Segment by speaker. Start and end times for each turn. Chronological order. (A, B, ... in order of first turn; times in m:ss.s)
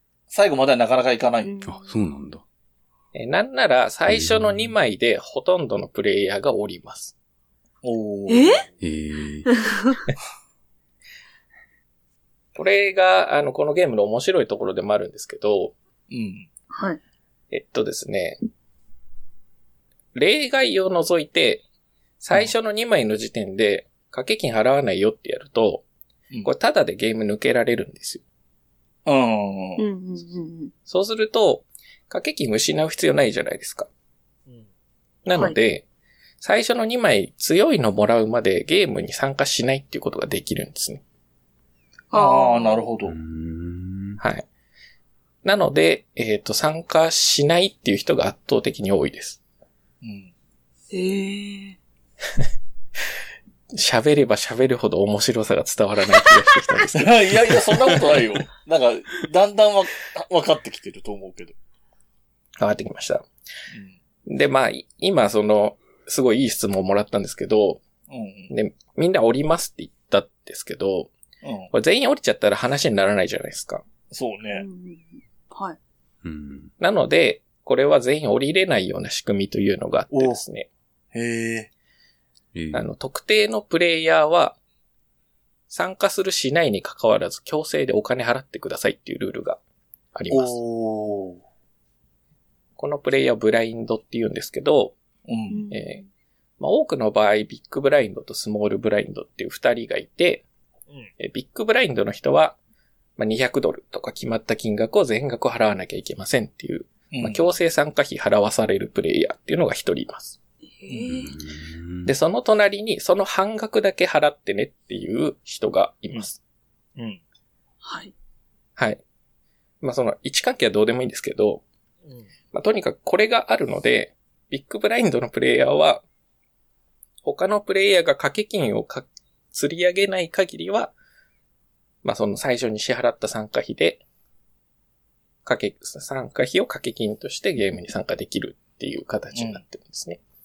0:00.3-0:01.5 A
0:01.4-0:01.9 B
0:01.6-0:02.4 C
0:03.1-0:07.1 D
0:04.1-0:04.7 C
0:07.8-0:08.7 A
0:08.3-0:08.6 B
0:08.8-0:09.5 C
0:09.5-0:10.0 B
0:12.5-0:15.7 D
0:16.1-0:16.5 A
0:16.7-0:17.0 B
0:17.5-0:18.4 D
0:20.1-0:21.6 D
0:22.2-0:25.8 D
0:26.4-0:28.2 D
0:29.0-0:29.8 A
0:29.8-0:30.7 B
0:30.9-0:33.9 D
0:35.2-0:35.8 D
0:36.4-0:41.0 D
0:42.1-0:42.8 B
0:42.1-0:43.1 A
0:43.0-0:44.2 C
0:44.2-0:44.4 D
0:45.4-0:49.4 D
0:50.0-0:50.3 A
0:50.9-0:51.8 B
0:53.7-0:57.5 D
0:56.9-1:01.5 A
1:02.6-1:03.2 D
1:03.7-1:04.0 A
1:04.3-1:07.8 D
1:08.1-1:08.5 A
1:08.5-1:11.1 D
1:11.4-1:11.7 A
1:11.7-1:13.8 D
1:14.1-1:14.6 A
1:14.5-1:15.8 B
1:16.2-1:16.7 C
1:16.8-1:20.7 D
1:20.1-1:20.4 A
1:21.1-1:21.7 A
1:22.5-1:22.8 C
1:22.7-1:24.6 D
1:25.7-1:29.6 D
1:30.1-1:30.6 D
1:30.3-1:31.4 A
1:32.8-1:35.0 D
1:35.3-1:35.6 A
1:35.5-1:36.1 B
1:35.7-1:36.0 D
1:36.6-1:40.4 D
1:41.2-1:42.6 D
1:43.2-1:50.4 D
1:47.1-1:47.4 A
1:50.8-1:51.3 B
1:50.9-1:52.1 C
1:52.0-1:56.4 D
1:57.8-1:58.1 B
1:59.8-2:01.6 D
2:02.5-2:06.0 D
2:07.2-2:10.9 D
2:12.0-2:14.0 D
2:15.4-2:20.2 D
2:19.3-2:19.6 A